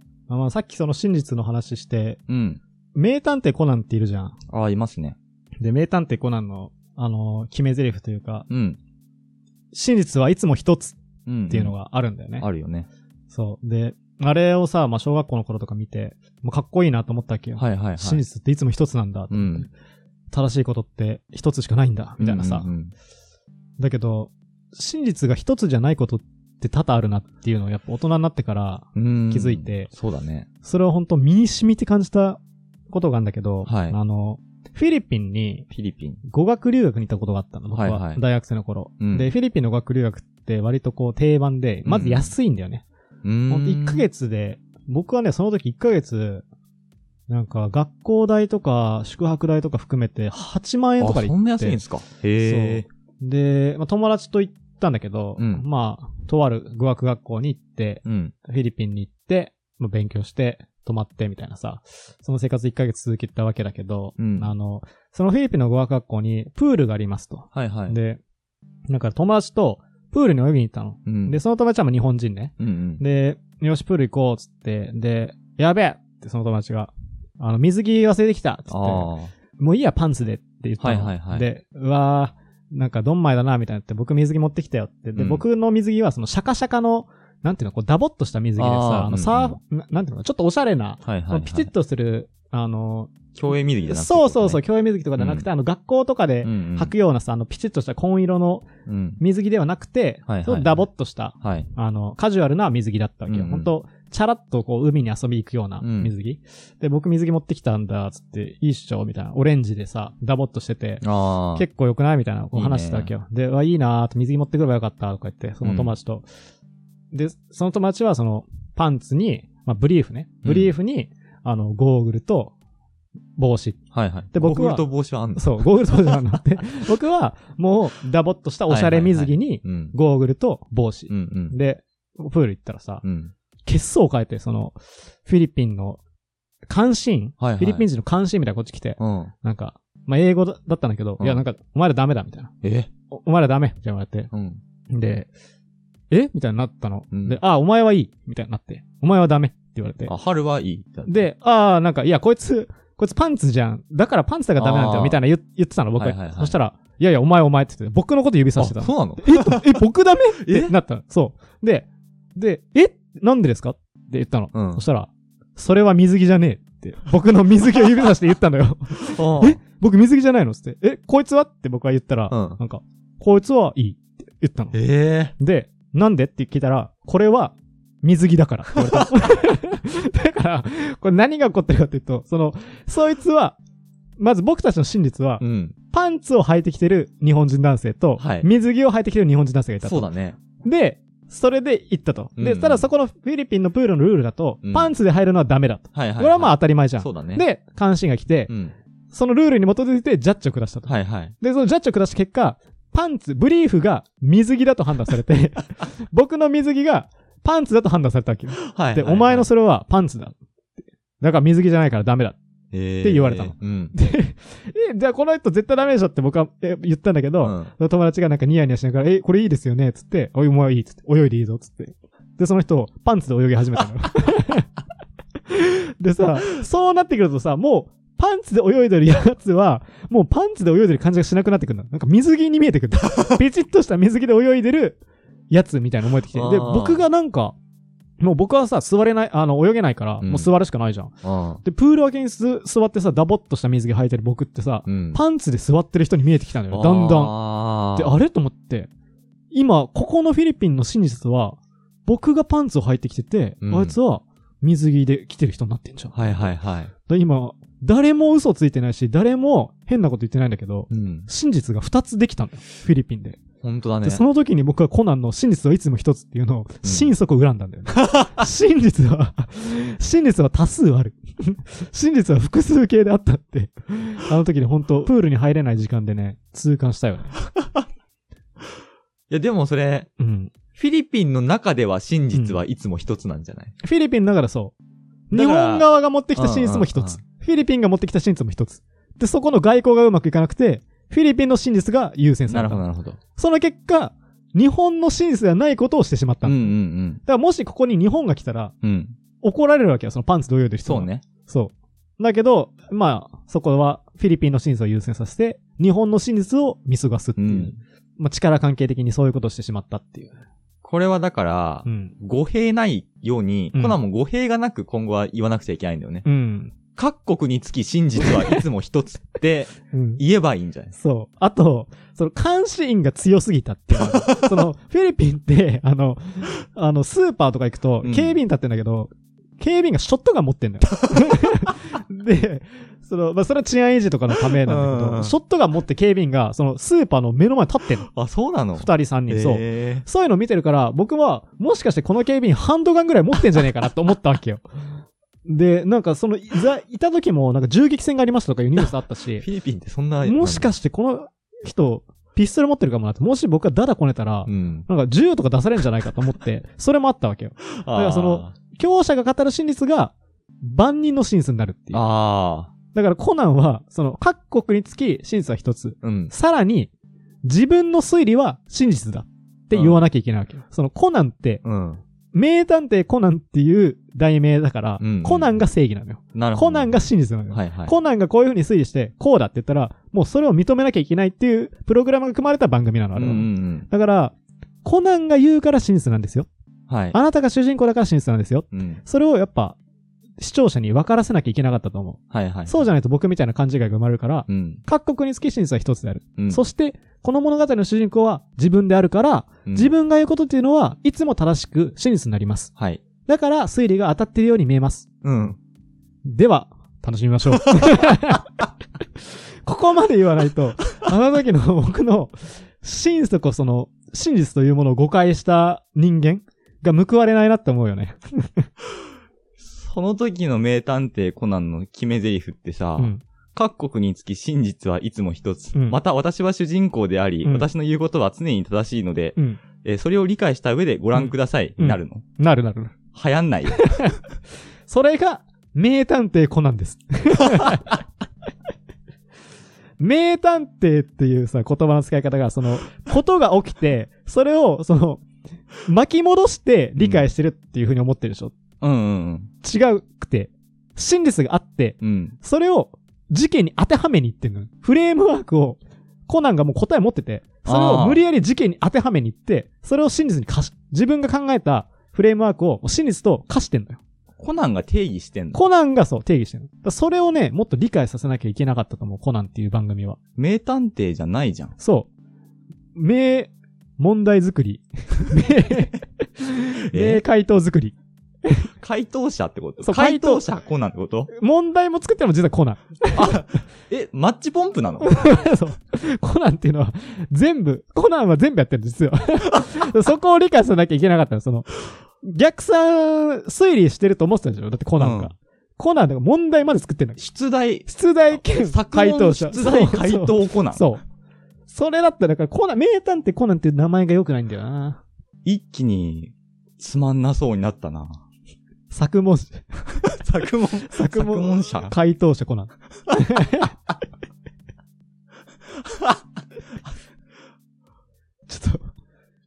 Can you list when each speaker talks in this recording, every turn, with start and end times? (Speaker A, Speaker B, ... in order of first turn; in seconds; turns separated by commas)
Speaker A: 0.3-2.2, Speaker B: 2.3-2.6, Speaker A: 3.0-4.4, Speaker B: 4.5-5.2, Speaker A: 5.6-8.5, Speaker B: 8.5-8.8, Speaker A: 9.7-11.0, Speaker B: 11.3-11.7, Speaker A: 11.5-12.4, Speaker B: 12.4-12.9, Speaker A: 13.3-19.7, Speaker B: 17.6-18.2, Speaker B: 19.3-19.7, Speaker A: 20.3-22.7, Speaker B: 22.2-22.9, Speaker A: 23.8-29.9, Speaker B: 28.9-30.5, Speaker A: 30.6-35.7, Speaker B: 33.6-34.0, Speaker B: 35.7-36.2, Speaker A: 36.2-42.8, Speaker B: 37.7-38.2, Speaker B: 39.0-39.3, Speaker B: 41.9-42.3, Speaker B: 43.2-44.1, Speaker A: 43.5-46.4, Speaker A: 47.3-51.8, Speaker B: 51.0-52.9, Speaker A: 52.4-68.2, Speaker B: 55.4-55.6, Speaker B: 58.0-58.3, Speaker B: 64.2-64.5, Speaker B: 67.5-68.0, Speaker A: 68.9-93.2, Speaker B: 71.1-71.4, Speaker B: 72.6-73.0, Speaker B: 78.7-79.3, Speaker B: 80.8-81.5, Speaker B: 85.2-85.4, Speaker B: 88.6-89.6, Speaker B: 91.0-91.7, Speaker B: 93.3-94.6, Speaker A: 93.8-98.7, Speaker B: 95.2-95.5, Speaker B: 96.4-96.9, Speaker B: 98.9-99.2, Speaker A: 99.2-111.0, Speaker B: 100.3-100.8, Speaker B: 101.4-101.7, Speaker B: 103.3-103.7, Speaker B: 105.8-106.1, Speaker B: 111.0-111.7, Speaker A: 111.5-116.2, Speaker B: 112.5-113.1, Speaker B: 115.6-115.9, Speaker A: 117.1-122.5, Speaker B: 120.4-120.7, Speaker A: 123.4-123.8, Speaker B: 123.9-125.7, Speaker A: 124.3-133.0, Speaker B: 128.7-130.0, Speaker B: 131.1-131.6, Speaker B: 133.0-133.3, Speaker A: 133.7-136.0, Speaker A: 136.7-142.5, Speaker B: 137.4-137.9, Speaker B: 139.0-139.3, Speaker B: 142.6-142.9, Speaker A: 143.1-144.3, Speaker B: 144.3-144.6, Speaker A: 144.9-145.3, Speaker A: 146.1-150.1, Speaker B: 147.1-147.4, Speaker B: 150.1-151.2, Speaker A: 151.1-174.8, Speaker B: 154.6-155.2, Speaker B: 156.0-156.6, Speaker B: 158.6-159.8, Speaker B: 160.4-160.7, Speaker B: 164.5-164.8, Speaker B: 169.1-169.6, Speaker B: 172.3-172.6, Speaker B: 174.7-175.3, Speaker A: 175.4-183.6, Speaker B: 178.9-179.2, Speaker A: 184.2-190.1, Speaker B: 185.4-185.8, Speaker B: 188.2-188.5, Speaker B: 189.8-190.4, Speaker A: 190.6-198.5, Speaker B: 192.4-192.9, Speaker B: 194.6-194.9, Speaker B: 195.9-197.4, Speaker B: 198.5-198.8, Speaker A: 199.1-210.4, Speaker B: 200.9-201.3, Speaker B: 208.6-209.5, Speaker A: 211.2-212.4, Speaker B: 212.7-214.0, Speaker A: 213.0-224.7, Speaker B: 217.4-217.7, Speaker A: 225.5-235.0, Speaker A: 235.5-237.6, Speaker B: 236.3-237.1, Speaker A: 238.2-247.4, Speaker B: 240.2-240.5, Speaker B: 241.2-241.6, Speaker B: 244.9-245.2, Speaker B: 246.7-248.2, Speaker A: 247.9-248.9, Speaker A: 249.5-263.4, Speaker B: 253.6-254.0, Speaker B: 256.1-256.9, Speaker B: 260.9-261.3, Speaker B: 263.6-264.2, Speaker A: 264.0-277.4, Speaker B: 266.8-267.1, Speaker B: 268.0-268.3, Speaker B: 279.3-280.1, Speaker A: 280.2-280.5, Speaker B: 280.7-283.8, Speaker A: 282.3-282.6, Speaker A: 283.8-284.7, Speaker A: 285.3-292.8, Speaker B: 285.3-287.2, Speaker B: 292.5-293.2, Speaker A: 293.4-298.7, Speaker B: 296.4-297.2, Speaker B: 298.8-299.2, Speaker A: 299.4-310.4, Speaker B: 300.9-301.2, Speaker B: 307.4-307.8, Speaker B: 310.8-316.2, Speaker A: 311.9-312.1, Speaker A: 313.7-314.0, Speaker A: 316.2-316.7, Speaker B: 317.0-321.0, Speaker A: 319.9-320.2, Speaker A: 321.0-338.1, Speaker B: 324.0-324.7, Speaker B: 328.0-328.4, Speaker B: 331.1-331.7, Speaker B: 334.5-335.4, Speaker B: 338.1-340.1, Speaker A: 338.8-344.7, Speaker A: 345.5-349.4, Speaker B: 349.4-350.7, Speaker A: 350.2-360.1, Speaker B: 354.5-354.9, Speaker B: 357.8-358.5, Speaker A: 360.6-362.0, Speaker B: 361.9-362.7, Speaker A: 362.9-366.9, Speaker B: 366.0-366.3, Speaker A: 367.5-371.6, Speaker B: 369.7-370.1, Speaker B: 371.6-372.0, Speaker A: 372.3-386.5, Speaker B: 375.0-375.6, Speaker B: 376.3-377.9, Speaker B: 383.2-383.9, Speaker B: 386.9-387.2, Speaker A: 387.1-389.8, Speaker B: 388.7-389.0, Speaker A: 390.4-402.7, Speaker B: 392.3-392.8, Speaker B: 394.5-394.8, Speaker B: 396.4-396.6, Speaker B: 399.7-399.9, Speaker A: 403.3-405.1, Speaker B: 405.2-405.6, Speaker A: 406.3-408.6, Speaker A: 409.6-418.7, Speaker B: 419.6-432.2, Speaker A: 423.0-423.2, Speaker A: 429.4-429.6, Speaker A: 431.2-432.9, Speaker B: 433.1-434.1, Speaker A: 433.7-434.2, Speaker A: 434.9-438.0, Speaker B: 437.5-437.8, Speaker A: 440.0-445.2, Speaker A: 445.8-448.6, Speaker B: 447.0-447.3, Speaker B: 448.8-449.5, Speaker A: 449.6-464.0, Speaker B: 452.0-452.4, Speaker B: 457.7-458.2, Speaker B: 464.4-465.6, Speaker A: 465.5-470.2, Speaker B: 470.4-471.8, Speaker A: 471.8-472.1, Speaker A: 472.9-478.7, Speaker B: 476.9-477.2, Speaker B: 478.8-481.3, Speaker A: 479.8-480.5, Speaker A: 481.3-483.4, Speaker B: 483.1-485.2, Speaker A: 485.0-491.7, Speaker A: 492.2-497.2, Speaker B: 495.0-495.3, Speaker B: 497.2-500.9, Speaker A: 497.9-501.0, Speaker A: 501.7-505.0, Speaker B: 505.4-508.2, Speaker A: 508.9-510.0, Speaker B: 510.0-511.9, Speaker A: 510.9-513.7, Speaker B: 515.9-516.2, Speaker A: 518.5-518.9